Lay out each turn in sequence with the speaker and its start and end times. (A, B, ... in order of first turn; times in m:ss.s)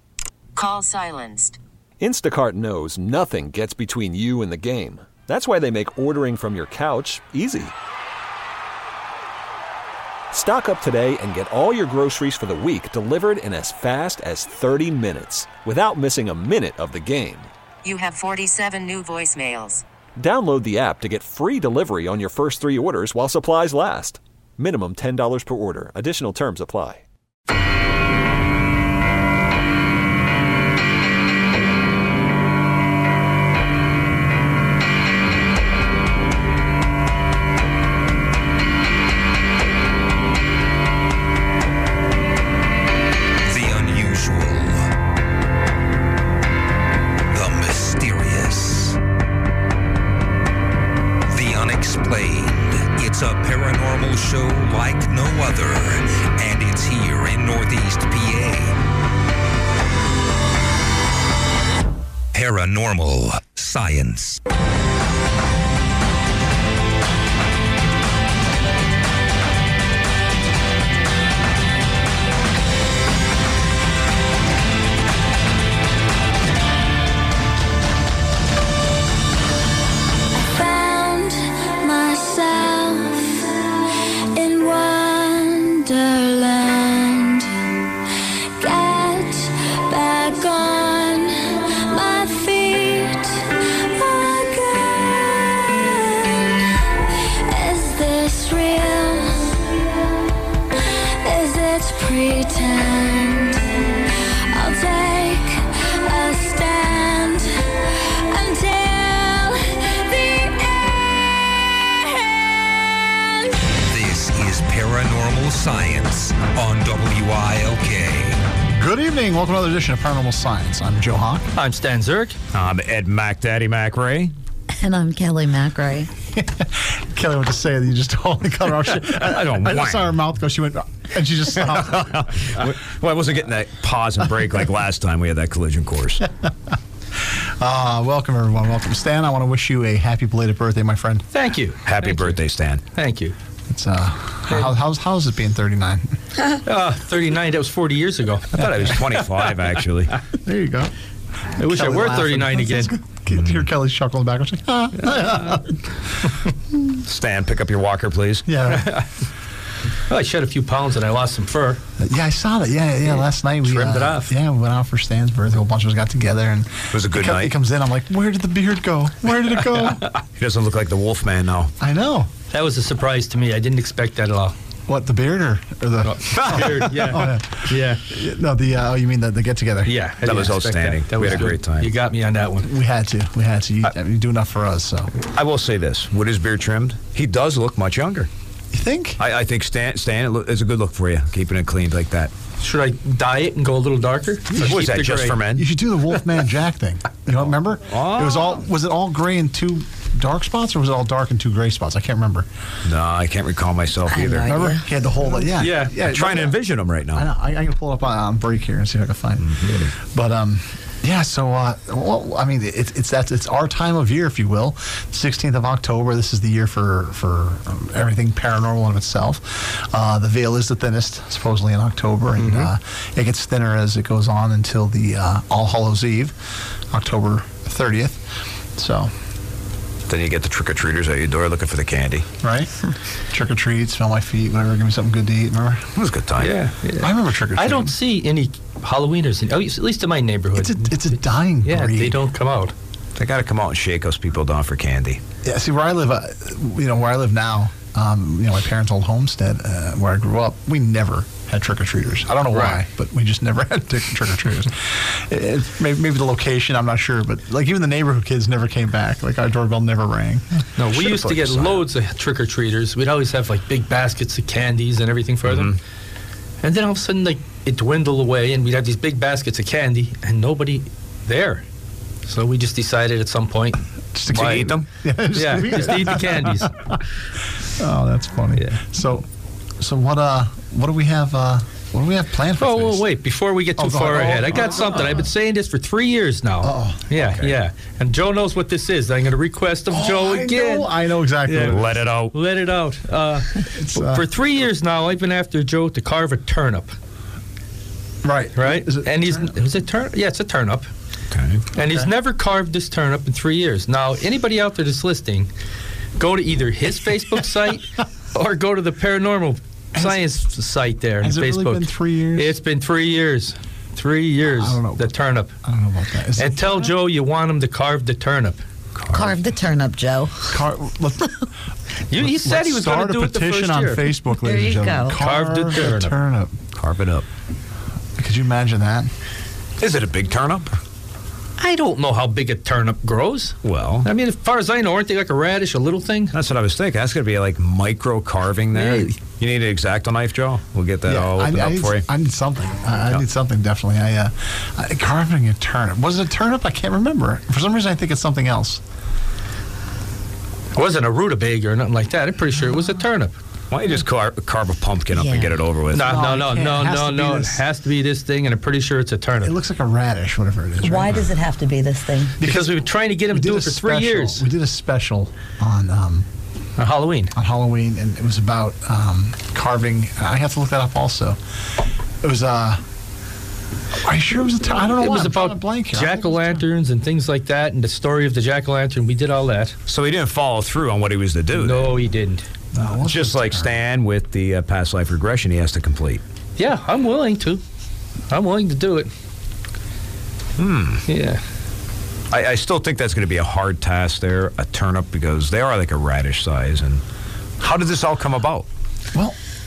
0:00.6-0:01.6 A
0:02.0-0:07.7 B
0:10.3-0:17.5 B
0:17.8-0:19.8 A
0:20.2-0:27.0 B
0:43.4-0:44.9 C
0:47.3-0:49.0 C
0:51.3-0:58.8 C
1:02.3-1:04.4 C
1:20.4-1:23.7 D
1:24.3-1:27.5 D
1:28.6-1:36.4 D
1:37.4-1:39.7 D
1:41.2-1:44.0 D
1:44.5-1:51.1 D
1:52.1-1:53.7 D
1:53.9-1:58.4 C
1:58.8-2:01.5 E
2:01.6-2:02.4 F
2:02.5-2:04.3 G
2:04.7-2:06.1 H
2:06.3-2:12.7 E
2:09.0-2:10.2 G
2:11.6-2:16.2 G
2:17.3-2:21.3 E
2:21.3-2:22.4 F
2:21.8-2:22.8 G
2:22.9-2:23.4 F
2:23.7-2:26.2 E
2:24.5-2:24.8 F
2:26.6-2:28.7 F
2:28.5-2:30.2 G
2:30.4-2:30.9 E
2:31.6-2:32.9 F
2:31.6-2:35.8 E
2:33.3-2:33.7 G
2:37.0-2:38.5 G
2:38.5-2:39.0 E
2:38.7-2:39.1 F
2:40.1-2:41.8 F
2:42.0-2:50.0 E
2:43.1-2:44.3 F
2:46.9-2:47.5 G
2:50.4-2:51.7 G
2:51.8-2:52.3 E
2:52.5-2:54.6 F
2:54.9-3:00.0 E
2:56.0-2:58.0 F
2:56.3-2:57.1 G
2:59.8-3:02.7 F
3:00.2-3:01.9 G
3:02.6-3:05.1 E
3:05.3-3:08.3 G
3:08.7-3:09.2 E
3:09.2-3:12.3 G
3:12.6-3:15.4 F
3:14.5-3:15.7 G
3:15.5-3:22.5 E
3:17.8-3:18.6 G
3:22.8-3:24.5 G
3:24.1-3:24.8 H
3:24.4-3:49.1 E
3:25.6-3:26.0 F
3:25.9-3:27.3 G
3:29.4-3:29.9 G
3:42.4-3:42.7 F
3:50.1-3:52.3 G
3:52.4-3:52.7 E
3:53.3-3:55.9 E
3:56.0-3:56.6 G
3:56.4-4:02.7 F
3:57.0-3:58.0 E
4:00.6-4:02.2 E
4:03.2-4:05.2 G
4:05.4-4:21.7 E
4:12.5-4:12.8 F
4:20.8-4:25.8 F
4:25.4-4:25.8 G
4:26.6-4:31.6 F
4:32.3-4:34.7 F
4:34.1-4:37.0 E
4:34.3-4:34.9 G
4:35.3-4:36.7 F
4:37.6-4:39.3 E
4:38.6-4:38.8 F
4:39.8-4:43.1 E
4:42.6-4:50.9 F
4:43.8-4:45.1 E
4:44.7-4:45.0 G
4:46.6-4:47.4 E
4:49.9-4:51.9 E
4:51.4-4:51.8 F
4:51.7-4:52.3 G
4:52.3-4:56.9 F
4:53.7-4:54.3 E
4:58.2-4:59.5 E
4:58.6-5:00.9 F
5:01.3-5:01.6 G
5:01.7-5:05.5 F
5:06.2-5:15.5 F
5:09.9-5:10.4 E
5:11.2-5:12.6 E
5:14.4-5:17.0 E
5:16.4-5:18.6 F
5:19.0-5:19.4 G
5:19.1-5:20.6 H
5:20.5-5:21.3 E
5:22.1-5:24.1 F
5:22.2-5:26.6 E
5:24.3-5:25.2 H
5:25.2-5:26.2 F
5:26.8-5:27.3 G
5:28.2-5:29.1 E
5:29.8-5:30.7 G
5:31.6-5:36.3 F
5:33.6-5:34.1 G
5:36.3-5:42.0 G
5:38.7-5:39.1 F
5:41.1-5:48.8 E
5:50.8-5:53.4 F
5:53.7-5:56.1 G
5:55.1-5:57.4 H
5:55.9-5:59.5 F
5:56.0-5:57.6 E
5:59.4-6:01.2 E
6:00.8-6:02.4 H
6:02.4-6:04.5 F
6:02.4-6:06.3 E
6:06.8-6:07.3 F
6:07.4-6:11.4 E
6:12.2-6:12.8 E
6:14.0-6:16.6 E
6:15.0-6:19.8 F
6:19.9-6:22.0 G
6:21.5-6:22.4 F
6:22.7-6:23.8 E
6:22.8-6:26.2 G
6:26.6-6:27.6 F
6:28.3-6:29.1 F
6:30.6-6:31.0 G
6:31.1-6:31.4 F
6:32.3-6:37.0 G
6:37.6-6:38.7 G